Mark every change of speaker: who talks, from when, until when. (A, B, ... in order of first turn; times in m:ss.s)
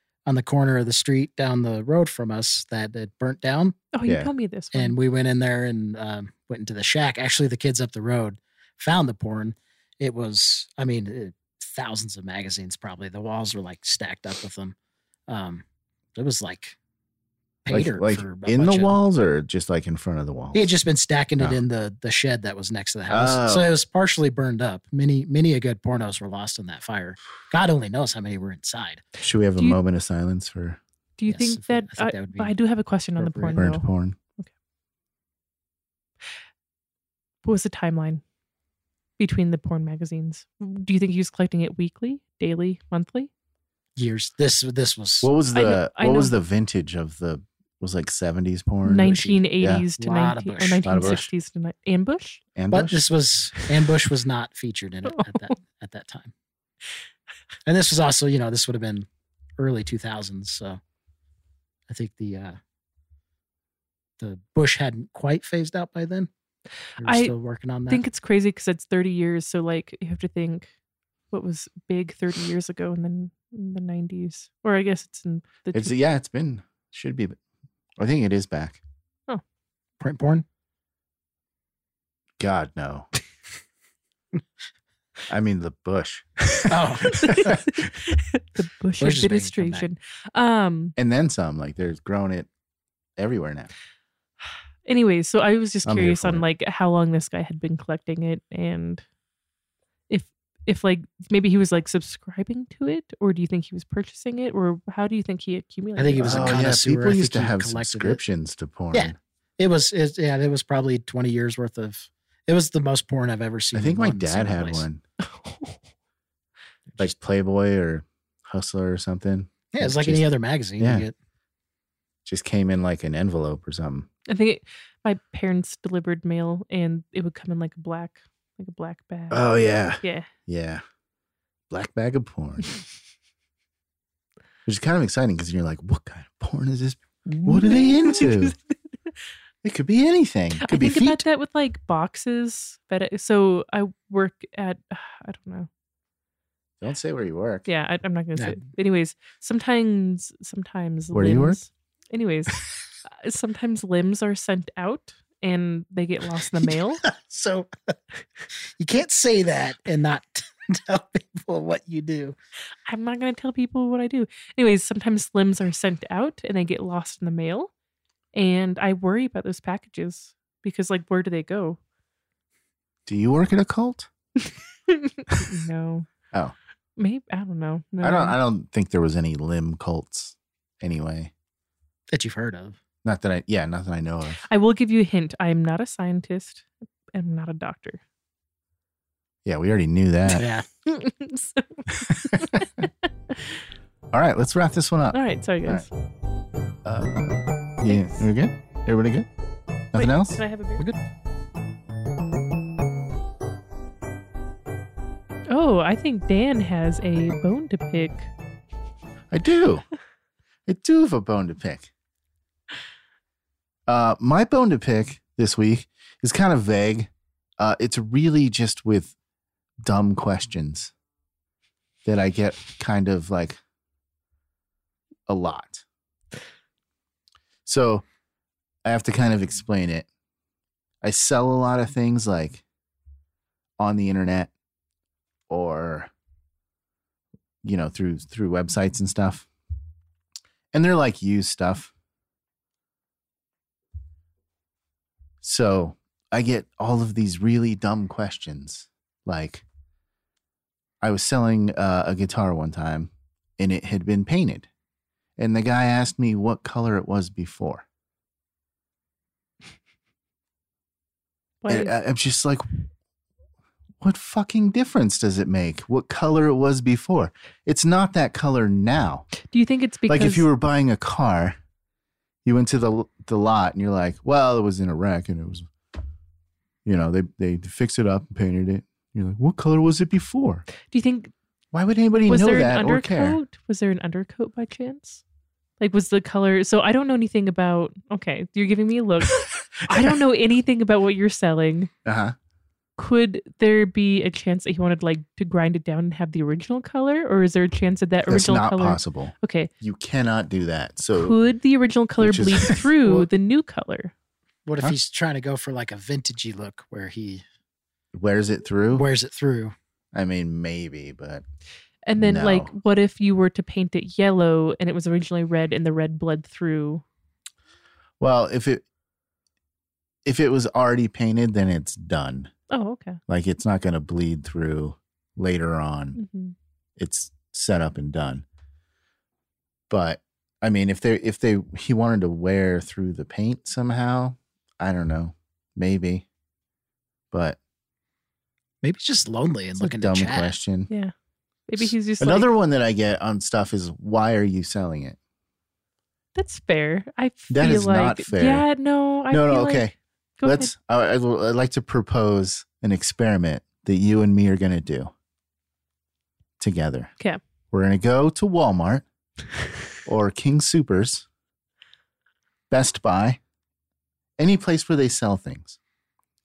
0:00.2-0:03.8 A
0:03.9-0:05.0 B
0:04.0-0:04.3 C
0:04.7-0:14.7 A
0:15.3-0:15.6 A
0:16.1-0:16.8 A
0:17.6-0:18.9 A
0:17.7-0:20.7 C
0:20.5-0:29.0 A
0:23.1-0:23.7 C
0:29.2-0:30.8 C
0:31.2-0:33.8 B
0:31.3-0:32.5 A
0:33.2-0:33.6 A
0:33.6-0:34.2 C
0:37.4-0:38.2 B
0:39.2-0:43.3 B
0:44.0-0:45.3 A
0:45.2-0:49.8 C
0:45.5-0:46.3 B
0:48.8-0:52.4 B
0:49.0-0:49.4 A
0:50.0-0:50.9 A
0:50.8-0:51.3 C
0:52.6-0:53.0 C
0:52.7-0:56.3 A
0:55.0-0:55.5 B
0:57.6-0:59.1 A
0:59.6-1:00.8 A
1:01.9-1:02.6 A
1:04.2-1:06.3 A
1:07.0-1:08.0 A
1:07.0-1:07.3 B
1:07.9-1:10.7 B
1:11.3-1:15.9 B
1:15.7-1:17.4 C
1:18.0-1:18.8 C
1:20.0-1:20.4 A
1:22.4-1:23.1 C
1:25.3-1:27.8 C
1:26.7-1:27.6 A
1:27.1-1:31.0 B
1:29.0-1:29.9 A
1:31.0-1:32.5 C
1:33.2-1:33.7 C
1:34.8-1:39.0 B
1:35.8-1:36.4 C
1:40.1-1:46.6 B
1:46.0-1:48.2 A
1:46.2-1:49.2 C
1:48.9-1:54.8 A
1:53.7-1:55.0 C
1:55.2-1:55.8 B
1:57.0-2:00.2 C
1:59.7-2:01.1 A
2:00.8-2:01.0 C
2:02.2-2:04.1 C
2:04.3-2:09.5 B
2:09.3-2:10.8 C
2:10.0-2:10.3 B
2:11.7-2:12.7 C
2:14.6-2:18.5 C
2:17.3-2:18.6 B
2:19.6-2:21.2 C
2:20.6-2:25.7 B
2:26.8-2:27.7 C
2:27.6-2:37.0 B
2:31.1-2:31.6 C
2:36.6-2:37.7 A
2:38.7-2:42.3 A
2:42.8-2:47.7 B
2:48.3-2:51.8 B
2:53.0-2:54.1 C
2:54.9-2:56.1 B
2:57.0-2:58.4 B
2:58.0-3:01.3 C
3:02.1-3:02.8 A
3:03.0-3:04.4 C
3:04.4-3:08.0 B
3:09.4-3:10.5 C
3:10.3-3:10.6 A
3:10.8-3:12.9 B
3:12.1-3:12.8 C
3:14.1-3:15.8 C
3:15.1-3:15.9 B
3:16.8-3:19.3 C
3:17.9-3:18.2 B
3:19.9-3:20.4 C
3:20.0-3:20.8 B
3:25.5-3:28.3 B
3:29.3-3:29.8 C
3:30.6-3:31.9 C
3:33.9-3:39.1 C
3:39.8-3:40.9 C
3:42.0-3:43.6 C
3:45.3-3:45.8 C
3:47.6-3:48.0 C
3:48.8-3:50.1 C
3:51.0-3:52.6 C
3:53.8-3:54.5 C
3:55.5-3:56.1 C
3:57.6-3:59.5 C
4:00.7-4:01.9 C
4:05.4-4:09.6 C
4:11.0-4:14.7 C
4:15.4-4:17.8 C
4:21.6-4:21.9 B
4:21.7-4:22.6 C
4:24.0-4:29.3 C
4:29.4-4:30.5 B
4:30.1-4:31.6 C
4:32.4-4:35.7 C
4:36.8-4:40.6 C
4:40.9-4:41.3 B
4:41.7-4:43.4 C
4:42.3-4:45.2 B
4:45.8-4:51.9 B
4:52.0-4:52.4 C
4:53.0-4:59.7 B
4:58.3-5:01.4 C
5:01.1-5:04.1 B
5:02.2-5:02.8 C
5:04.6-5:07.4 A
5:08.1-5:09.0 C
5:08.9-5:09.7 A
5:10.1-5:11.4 C
5:12.0-5:17.0 B
5:12.2-5:12.7 C
5:18.2-5:18.8 C
5:20.2-5:22.5 C
5:22.7-5:23.2 B
5:23.3-5:26.2 C
5:26.2-5:26.5 B
5:27.0-5:28.4 C
5:29.9-5:36.2 C
5:37.3-5:37.6 C
5:38.8-5:40.6 A
5:39.8-5:40.9 C
5:41.7-5:42.5 B
5:41.8-5:45.2 C
5:46.4-5:50.7 B
5:47.5-5:48.6 C
5:49.3-5:55.1 C
5:56.6-5:57.1 C
5:57.7-5:59.0 C
6:00.0-6:01.2 C
6:02.7-6:03.4 C
6:04.4-6:05.8 C